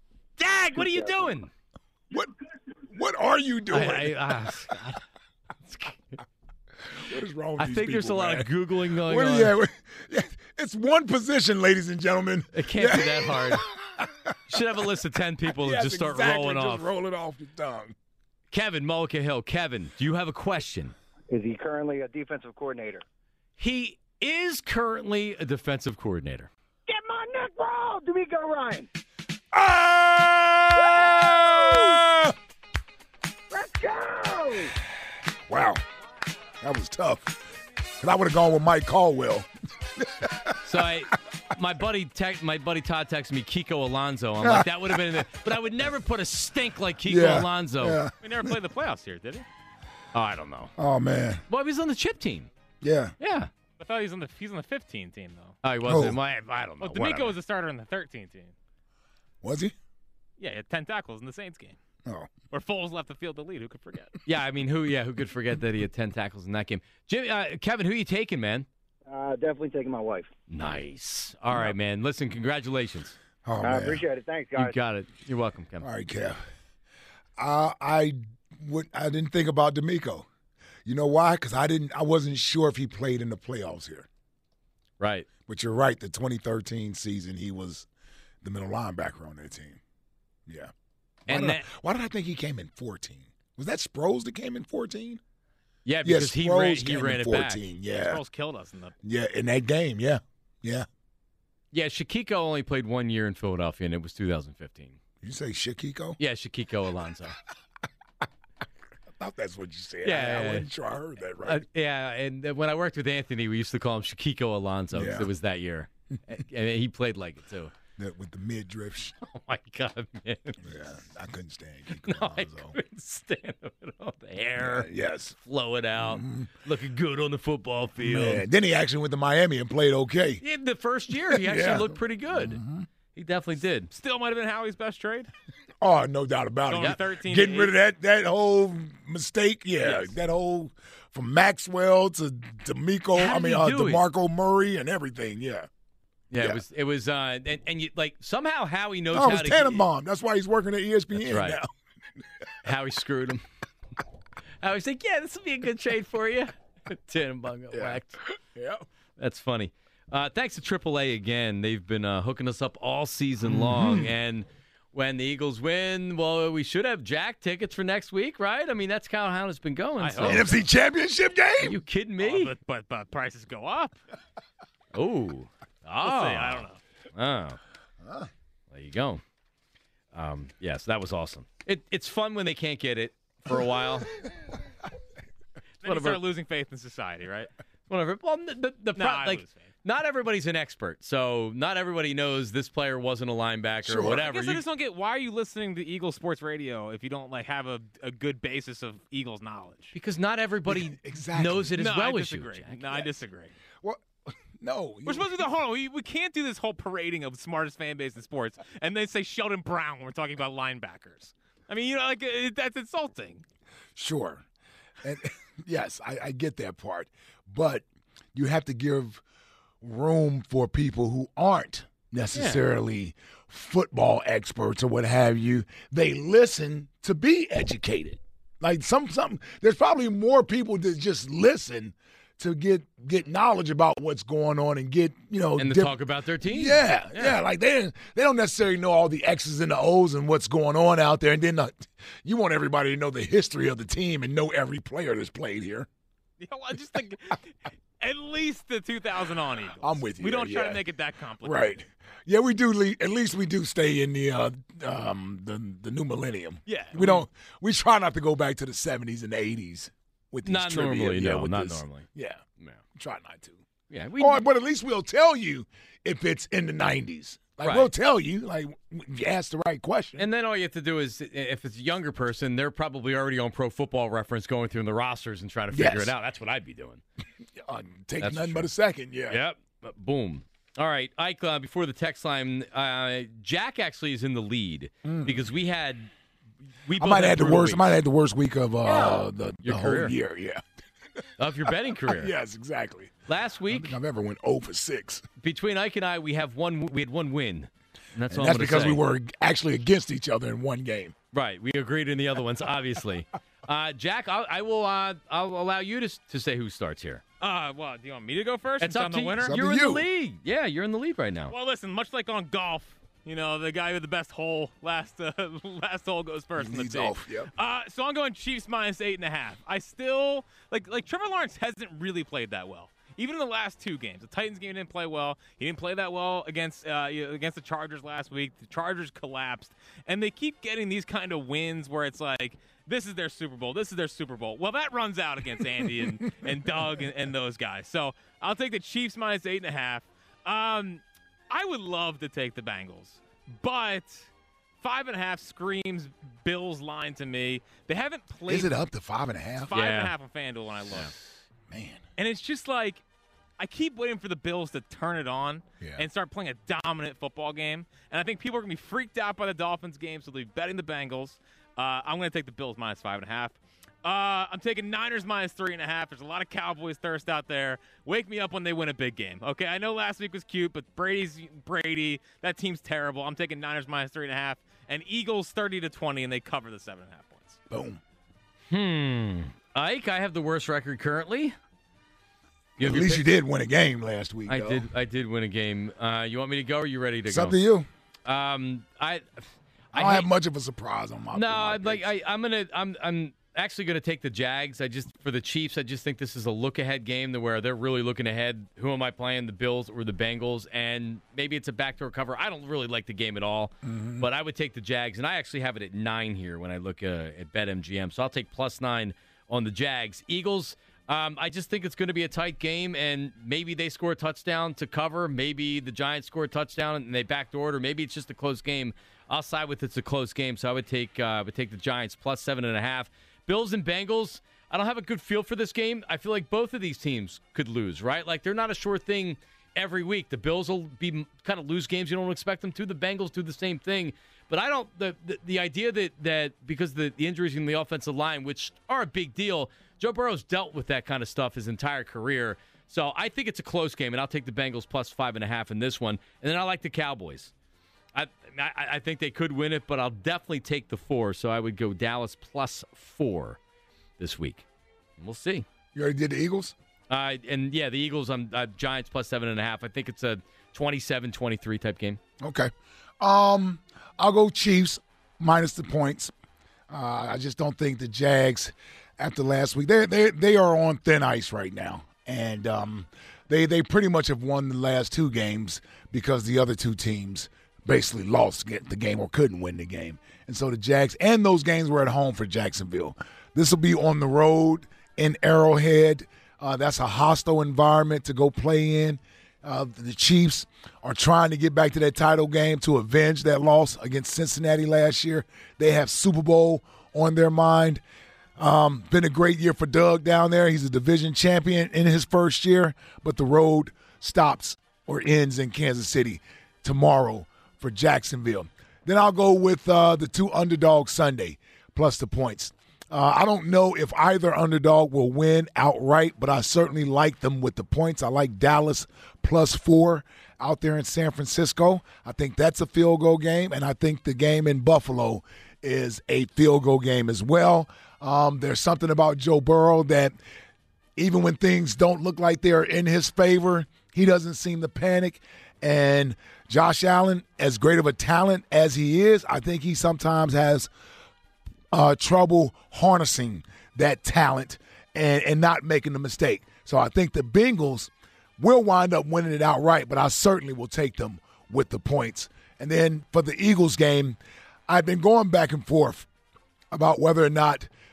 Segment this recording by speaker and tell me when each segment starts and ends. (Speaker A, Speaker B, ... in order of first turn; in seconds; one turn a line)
Speaker A: 0.4-1.5
Speaker B: 2.9-4.3
Speaker A: 3.7-5.0
Speaker A: 5.7-6.2
Speaker B: 6.9-14.3
Speaker A: 7.6-9.6
Speaker A: 12.5-13.7
Speaker A: 14.5-16.9
Speaker B: 15.5-17.9
Speaker A: 18.5-20.9
Speaker C: 21.3-23.0
Speaker A: 23.6-26.5
Speaker C: 26.9-28.9
Speaker B: 29.5-32.3
Speaker C: 31.0-31.9
Speaker C: 33.5-34.7
Speaker B: 35.5-35.8
Speaker B: 36.6-37.4
Speaker B: 38.0-40.5
Speaker A: 40.6-48.0
Speaker B: 44.4-45.2
Speaker B: 47.1-48.5
Speaker D: 48.2-49.5
Speaker A: 50.1-50.7
Speaker B: 50.8-51.4
Speaker A: 51.5-52.5
Speaker B: 52.8-53.1
Speaker A: 53.2-53.5
Speaker D: 53.8-55.6
Speaker A: 55.6-57.4
Speaker B: 55.9-56.2
Speaker D: 56.8-58.5
Speaker B: 59.4-59.8
Speaker D: 60.4-61.8
Speaker B: 62.0-62.3
Speaker D: 62.5-64.2
Speaker A: 64.3-68.7
Speaker C: 69.1-70.3
Speaker A: 70.5-73.2
Speaker B: 73.5-74.0
Speaker C: 73.6-74.8
Speaker A: 74.5-75.9
Speaker B: 75.8-76.4
Speaker B: 77.4-80.3
Speaker B: 80.8-84.1
Speaker A: 85.0-85.3
Speaker B: 85.5-87.9
Speaker B: 88.4-89.8
Speaker B: 90.5-90.7
Speaker A: 91.3-91.7
Speaker B: 91.3-95.2
Speaker A: 95.8-97.6
Speaker B: 96.0-98.2
Speaker D: 97.9-98.9
Speaker B: 99.0-100.9
Speaker A: 101.7-105.0
Speaker B: 105.2-106.2
Speaker A: 106.2-107.4
Speaker B: 109.2-111.6
Speaker A: 110.0-110.7
Speaker A: 111.4-117.7
Speaker B: 114.9-115.3
Speaker B: 118.0-119.2
Speaker A: 119.2-120.7
Speaker B: 120.6-122.8
Speaker A: 122.0-124.9
Speaker B: 124.6-125.4
Speaker A: 125.4-128.4
Speaker B: 126.0-126.5
Speaker B: 128.0-130.4
Speaker A: 130.4-132.6
Speaker B: 131.1-132.9
Speaker A: 133.1-133.9
Speaker D: 133.9-135.3
Speaker B: 135.8-145.7
Speaker D: 136.7-137.8
Speaker A: 143.2-144.0
Speaker A: 146.3-149.9
Speaker B: 149.1-151.7
Speaker A: 151.1-151.6
Speaker A: 152.6-153.4
Speaker A: 154.6-158.2
Speaker B: 157.7-158.8
Speaker A: 159.2-170.5
Speaker B: 163.4-164.1
Speaker D: 170.0-170.6
Speaker B: 170.2-171.8
Speaker A: 171.6-172.5
Speaker D: 172.2-174.0
Speaker A: 174.9-177.6
Speaker D: 176.0-176.8
Speaker B: 178.0-178.3
Speaker A: 178.7-179.2
Speaker A: 180.1-184.1
Speaker D: 185.8-187.5
Speaker A: 185.8-186.2
Speaker A: 187.9-194.6
Speaker D: 189.0-189.7
Speaker B: 193.8-194.2
Speaker D: 194.1-199.9
Speaker A: 199.9-203.1
Speaker B: 200.7-201.8
Speaker D: 201.8-203.5
Speaker B: 203.8-205.4
Speaker D: 205.1-213.4
Speaker B: 214.0-214.4
Speaker B: 215.0-219.2
Speaker B: 219.8-245.9
Speaker A: 222.3-222.6
Speaker A: 235.6-237.4
Speaker D: 246.4-251.8
Speaker B: 249.8-250.8
Speaker B: 251.4-262.4
Speaker D: 256.7-257.2
Speaker A: 260.4-262.1
Speaker B: 262.9-263.6
Speaker A: 263.9-264.4
Speaker B: 264.2-270.3
Speaker A: 267.6-267.9
Speaker A: 270.2-277.0
Speaker B: 275.7-276.1
Speaker B: 277.6-279.4
Speaker A: 278.2-278.7
Speaker A: 279.3-286.1
Speaker B: 285.0-285.4
Speaker A: 286.8-287.9
Speaker B: 287.0-290.6
Speaker A: 288.9-290.2
Speaker A: 291.4-292.3
Speaker B: 292.0-293.1
Speaker A: 293.3-294.0
Speaker B: 293.7-295.2
Speaker A: 295.4-299.0
Speaker B: 298.3-301.1
Speaker A: 301.3-307.2
Speaker D: 307.4-309.5
Speaker A: 308.8-311.5
Speaker B: 309.4-310.1
Speaker D: 311.5-344.3
Speaker B: 316.6-317.5
Speaker D: 344.8-348.8
Speaker B: 348.5-349.7
Speaker D: 349.6-351.1
Speaker A: 349.7-350.1
Speaker B: 351.7-352.0
Speaker D: 352.2-353.0
Speaker D: 353.6-377.6
Speaker B: 355.8-356.1
Speaker B: 377.7-378.0
Speaker A: 378.7-381.6
Speaker A: 382.8-383.3
Speaker B: 382.8-384.9
Speaker A: 384.5-387.6
Speaker B: 387.3-387.9
Speaker A: 388.3-390.3
Speaker B: 389.9-392.1
Speaker A: 391.3-447.5
Speaker B: 403.8-404.3
Speaker A: 448.1-453.6
Speaker A: 454.2-454.7
Speaker A: 455.2-455.7
Speaker B: 455.9-456.8
Speaker A: 457.1-462.2
Speaker B: 462.4-466.3
Speaker B: 466.9-498.0
Speaker B: 498.6-530.4
Speaker B: 531.2-540.9
Speaker B: 541.9-554.4
Speaker B: 554.9-556.3
Speaker B: 556.9-557.9